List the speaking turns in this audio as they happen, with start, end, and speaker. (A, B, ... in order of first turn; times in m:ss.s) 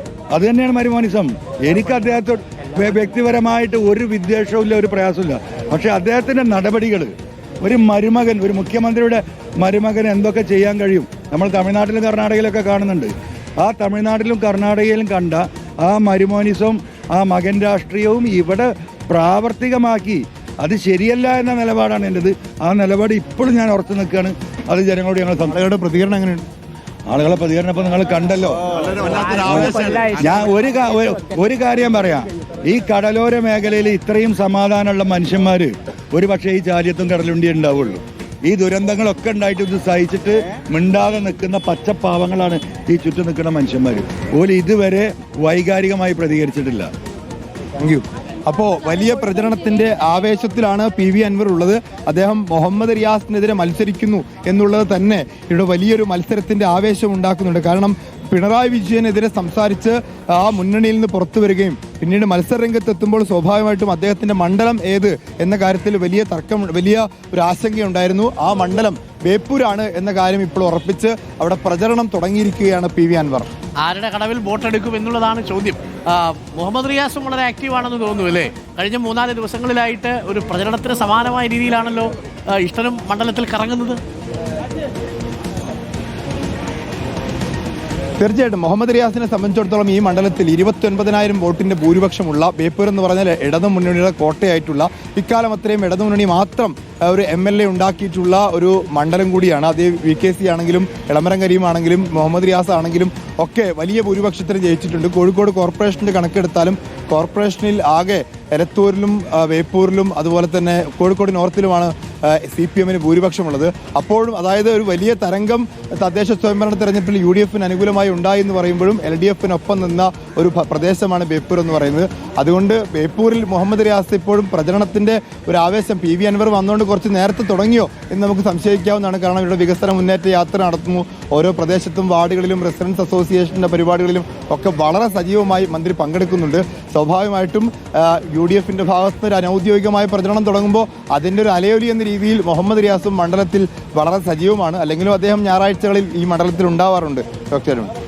0:00.3-0:25.6 A
0:25.5-0:26.4 B
0:27.1-0:46.9 A
0:29.1-0:30.1 B
0:47.8-1:13.5 B
1:13.8-1:24.0 C
1:28.2-2:27.9 B